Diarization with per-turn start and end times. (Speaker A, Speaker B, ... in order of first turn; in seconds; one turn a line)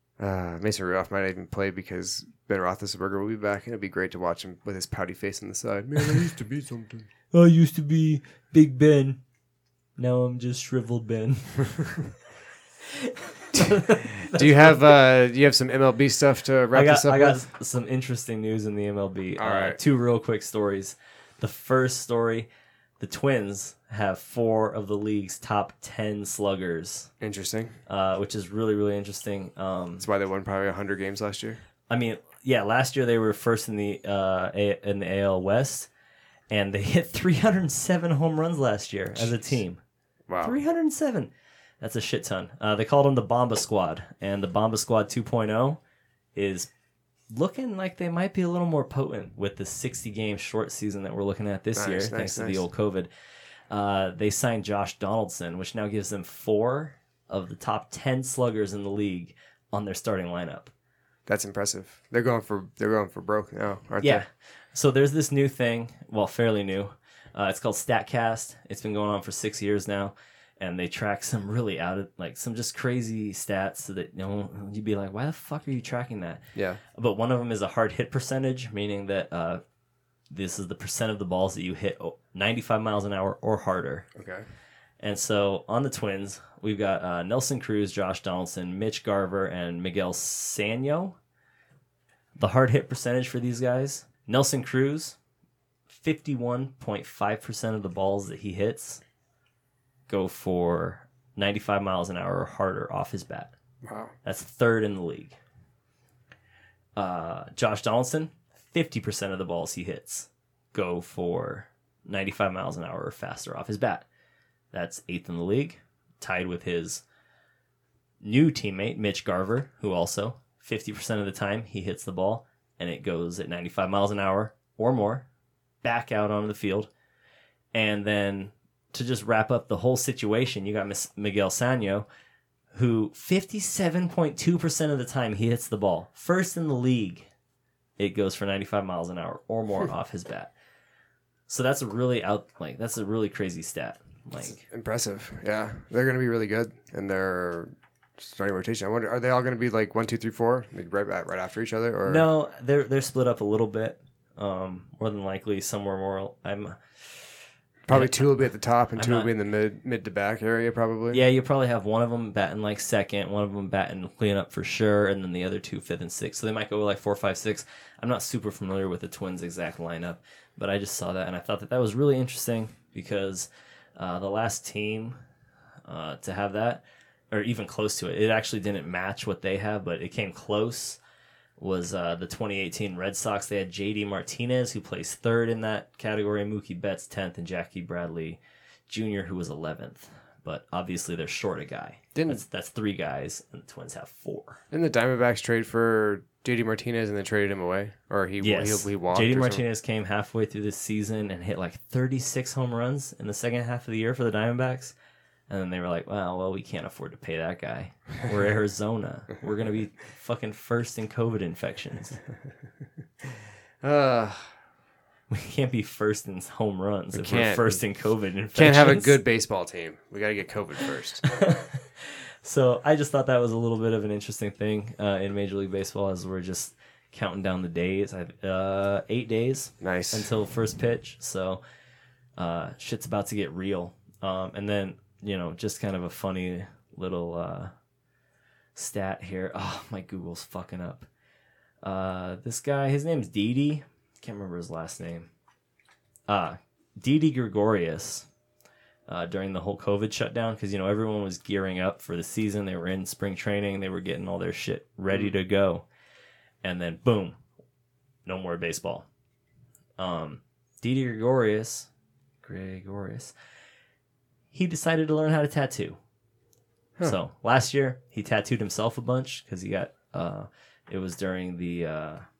Speaker A: 0.2-7.1
Speaker B: 7.3-9.2
Speaker B: 10.0-12.1
Speaker B: 13.1-14.8
Speaker A: 14.3-17.4
Speaker B: 16.7-22.5
Speaker A: 19.4-19.8
Speaker B: 23.0-27.1
Speaker A: 27.2-27.8
Speaker B: 27.9-30.1
Speaker A: 30.0-31.6
Speaker B: 31.9-35.9
Speaker B: 36.5-39.8
Speaker A: 39.1-39.5
Speaker A: 40.3-40.6
Speaker B: 40.4-45.8
Speaker B: 46.3-46.7
Speaker B: 47.3-53.1
Speaker A: 51.8-52.6
Speaker B: 53.7-60.7
Speaker A: 61.3-64.2
Speaker B: 64.0-76.4
Speaker A: 76.5-76.8
Speaker B: 76.9-79.6
Speaker B: 80.3-84.1
Speaker A: 84.2-84.4
Speaker B: 85.0-91.2
Speaker B: 92.4-95.2
Speaker B: 95.9-99.0
Speaker B: 100.1-103.5
Speaker A: 103.8-104.1
Speaker B: 104.2-105.4
Speaker B: 107.0-114.0
Speaker B: 114.7-117.0
Speaker B: 118.2-125.2
Speaker B: 125.8-126.9
Speaker B: 127.7-132.1
Speaker B: 132.7-137.3
Speaker B: 138.0-140.5
Speaker B: 141.5-144.6
Speaker A: 144.4-152.2
Speaker B: 152.0-157.2
Speaker A: 157.9-161.2
Speaker B: 157.9-158.4
Speaker B: 159.0-159.3
Speaker B: 161.1-175.2
Speaker B: 175.8-181.0
Speaker B: 181.6-194.6
Speaker A: 192.1-192.4
Speaker A: 194.7-199.6
Speaker B: 198.4-204.9
Speaker B: 205.5-212.2
Speaker A: 213.8-214.5
Speaker B: 215.3-219.2
Speaker A: 217.1-217.8
Speaker A: 218.5-221.2
Speaker B: 221.2-231.6
Speaker A: 229.8-230.3
Speaker B: 232.3-237.7
Speaker B: 238.7-241.1
Speaker B: 241.8-245.3
Speaker B: 246.3-248.3
Speaker B: 249.1-255.8
Speaker B: 256.6-257.4
Speaker B: 258.2-259.1
Speaker B: 260.0-261.9
Speaker B: 262.4-263.3
Speaker B: 264.5-266.0
Speaker B: 267.0-272.2